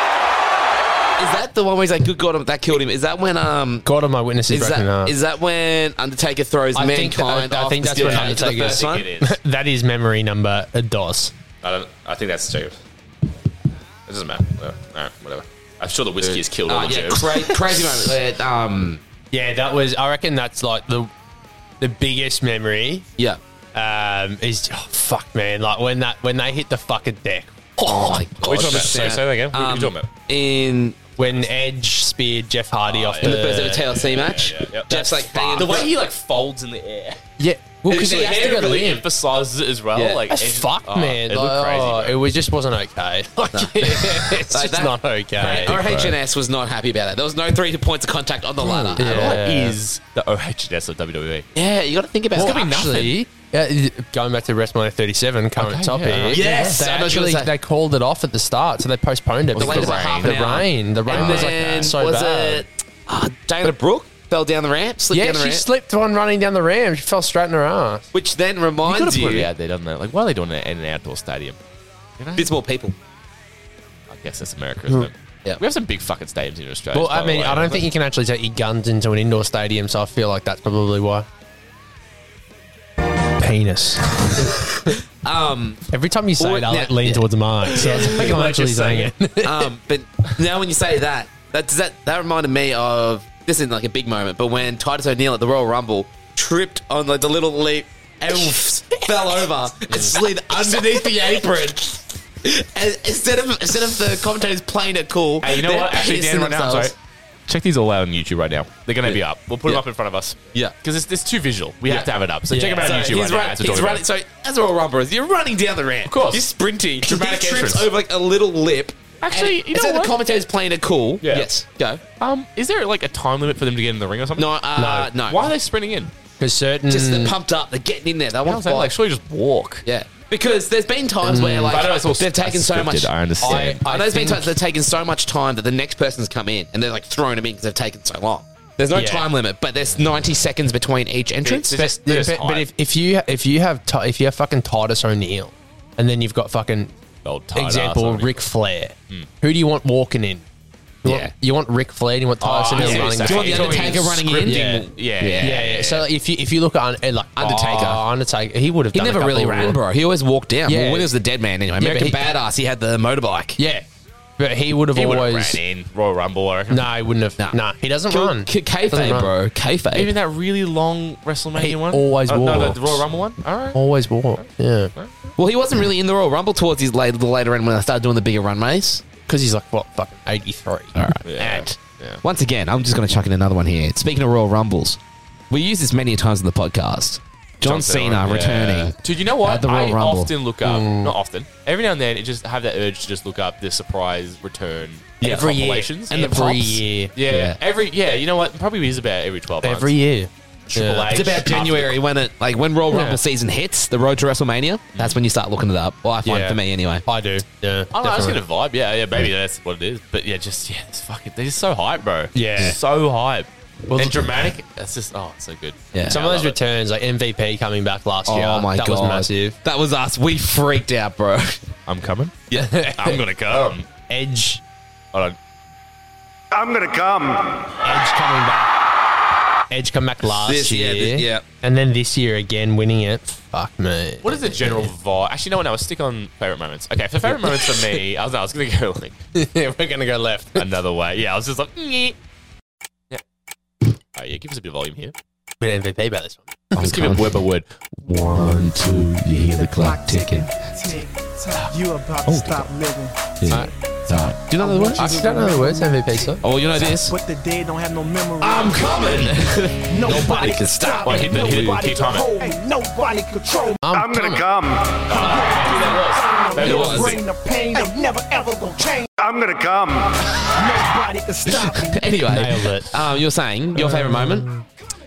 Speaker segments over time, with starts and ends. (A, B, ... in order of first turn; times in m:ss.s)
0:01.2-0:03.9 A
0:03.8-0:05.2 B
0:04.5-0:09.1 A
0:06.8-0:11.3 B
0:07.9-0:09.4 C
0:11.6-0:12.8 C
0:14.1-0:17.6 C
0:16.2-0:19.0 A
0:19.3-0:21.1 B
0:21.8-0:23.1 B
0:23.8-0:28.2 B
0:27.8-0:31.0 A
0:28.4-0:30.1 C
0:31.2-0:33.8 B
0:32.9-0:34.9 C
0:33.2-0:35.9 A
0:34.9-0:35.8 B
0:35.4-0:37.2 C
0:37.4-0:39.0 B
0:37.8-0:39.0 A
0:37.9-0:42.2 C
0:40.0-0:40.2 A
0:40.3-0:45.8 B
0:43.5-0:49.4 A
0:45.4-0:46.2 C
0:48.6-0:49.8 B
0:49.0-0:51.5 C
0:51.5-0:53.1 A
0:52.4-0:53.2 C
0:52.4-1:02.6 B
0:55.6-0:56.5 C
0:56.2-0:57.5 A
0:59.5-1:01.9 C
0:59.6-1:05.7 A
1:05.1-1:08.1 B
1:08.1-1:09.5 A
1:08.8-1:11.6 C
1:12.2-1:12.5 C
1:12.4-1:13.0 A
1:14.1-1:17.9 C
1:16.9-1:21.3 B
1:23.4-1:24.9 B
1:25.2-1:25.9 A
1:25.9-1:29.7 B
1:26.4-1:28.5 A
1:27.8-1:29.1 C
1:29.4-1:46.9 A
1:45.4-1:47.0 C
1:47.5-1:54.0 C
1:49.0-1:49.8 A
1:51.9-1:52.1 A
1:52.5-1:53.1 B
1:52.7-2:02.0 A
1:56.1-1:56.5 C
1:57.0-1:57.9 C
1:59.2-2:00.2 C
2:01.2-2:01.5 C
2:02.2-2:04.5 C
2:04.4-2:05.5 A
2:04.8-2:05.1 B
2:05.3-2:06.1 C
2:06.4-2:07.4 B
2:06.9-2:08.9 A
2:08.4-2:09.9 C
2:09.8-2:21.8 A
2:11.2-2:11.8 B
2:11.7-2:13.8 C
2:13.4-2:14.5 B
2:18.9-2:19.3 B
2:21.4-2:22.7 C
2:21.8-2:26.9 B
2:27.2-2:28.4 C
2:27.6-2:30.4 B
2:31.0-2:34.8 B
2:31.0-2:31.3 A
2:32.4-2:36.1 C
2:32.7-2:35.7 A
2:35.4-2:39.8 B
2:37.4-2:38.0 A
2:38.9-2:43.6 A
2:40.7-2:41.1 B
2:41.8-2:42.3 B
2:43.6-2:43.9 B
2:44.4-2:45.6 B
2:45.0-2:46.9 C
2:46.7-2:49.3 B
2:48.1-2:50.1 A
2:49.9-2:53.8 C
2:51.6-2:53.0 B
2:53.7-2:54.9 B
2:54.4-2:55.3 C
2:55.4-2:59.0 A
2:59.3-3:00.9 B
3:01.0-3:10.3 A
3:01.2-3:02.2 C
3:07.6-3:16.4 C
3:10.6-3:11.2 B
3:15.2-3:17.6 A
3:15.2-3:17.1 B
3:17.2-3:19.9 C
3:19.6-3:21.3 B
3:20.7-3:22.0 C
3:21.1-3:27.0 A
3:22.9-3:23.2 B
3:24.9-3:25.2 C
3:26.2-3:28.4 B
3:27.9-3:36.6 C
3:32.4-3:32.8 B
3:33.9-3:34.2 B
3:35.9-3:36.2 A
3:36.1-3:39.6 B
3:38.3-3:41.6 A
3:41.9-3:42.4 C
3:42.6-3:43.2 B
3:42.9-3:43.9 C
3:44.1-3:44.6 B
3:46.5-3:47.8 D
3:47.8-3:48.8 B
3:49.7-3:54.9 B
3:50.4-3:51.4 A
3:54.2-3:59.2 C
3:57.3-3:58.0 B
3:59.4-4:00.7 B
4:00.6-4:02.2 C
4:04.2-4:05.1 C
4:05.6-4:06.7 B
4:06.8-4:07.4 A
4:06.8-4:07.7 C
4:08.0-4:10.5 A
4:09.4-4:13.7 E
4:12.3-4:12.6 A
4:13.4-4:15.3 A
4:14.5-4:23.9 E
4:15.0-4:16.4 B
4:16.4-4:17.2 A
4:18.4-4:21.8 A
4:20.1-4:22.3 C
4:23.8-4:24.4 B
4:23.9-4:25.6 D
4:25.1-4:27.2 C
4:25.1-4:29.1 E
4:26.6-4:27.2 A
4:29.2-4:30.3 D
4:30.5-4:32.3 E
4:31.5-4:34.5 A
4:32.3-4:32.9 B
4:33.8-4:34.6 B